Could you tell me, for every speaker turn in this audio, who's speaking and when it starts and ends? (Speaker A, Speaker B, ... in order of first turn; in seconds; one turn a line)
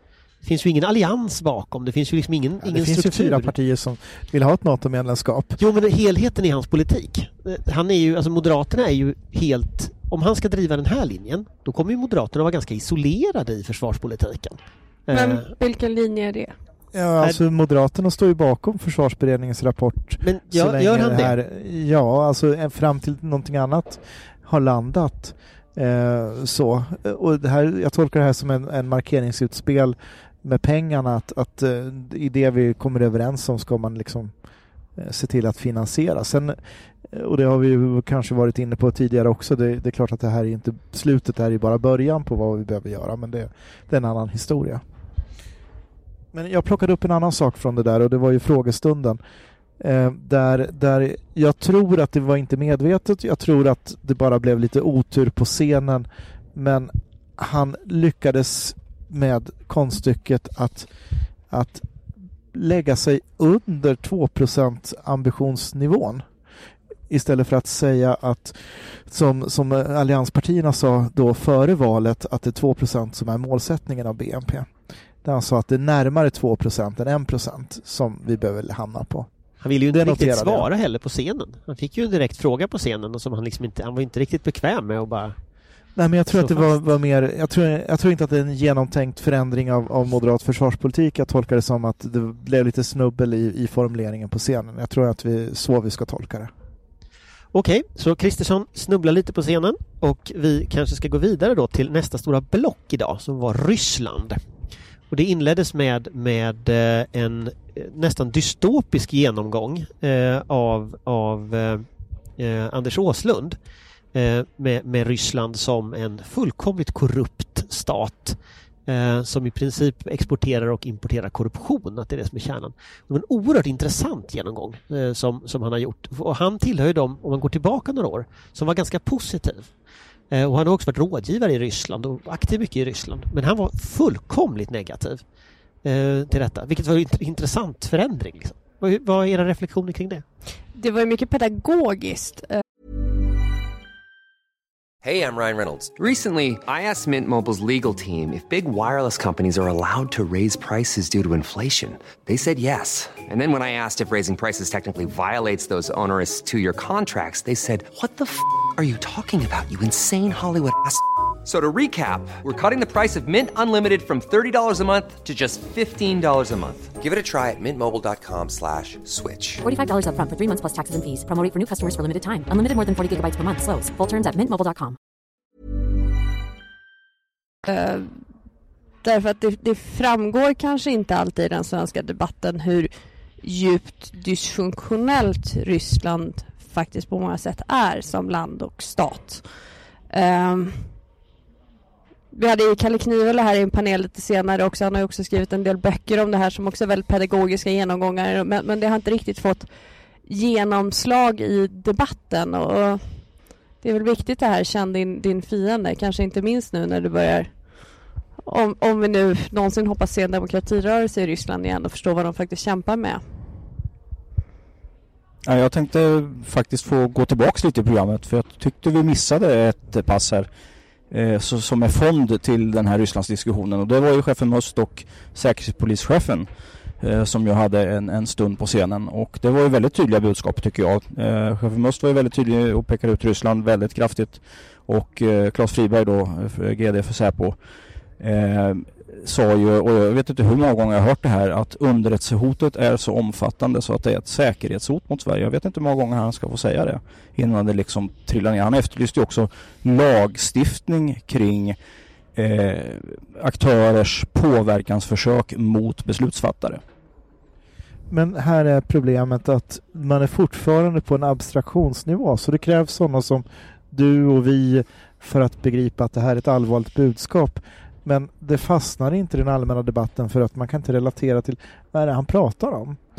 Speaker A: 0.4-3.5
Speaker B: 2.6-5.6
Speaker A: 5.6-15.4
Speaker C: 15.1-16.5
Speaker B: 16.9-34.3
Speaker A: 20.2-21.4
Speaker B: 35.0-36.5
Speaker B: 37.1-44.8
Speaker B: 46.3-49.2
Speaker B: 49.8-60.9
Speaker B: 61.5-61.8
Speaker B: 62.5-66.2
Speaker B: 67.1-74.7
Speaker B: 75.2-79.3
Speaker A: 79.6-85.3
Speaker B: 79.9-80.7
Speaker B: 86.0-96.5
Speaker A: 86.3-86.7
Speaker A: 97.5-104.4
Speaker A: 105.1-111.8
Speaker A: 112.4-113.6
Speaker A: 114.1-129.7
Speaker A: 130.3-135.2
Speaker A: 135.8-140.2
Speaker C: 140.7-142.6
Speaker D: 145.0-169.6
Speaker E: 169.6-174.9
Speaker C: 177.7-178.1
Speaker C: 179.0-182.9
Speaker C: 183.4-189.4
Speaker C: 190.1-190.8
Speaker C: 192.3-199.7
Speaker C: 200.3-203.0
Speaker C: 203.8-207.5
Speaker C: 208.5-213.2
Speaker F: 215.4-220.5
Speaker F: 221.1-226.5
Speaker F: 227.0-237.6
Speaker F: 238.2-251.8
Speaker F: 252.3-256.8
Speaker B: 258.1-273.0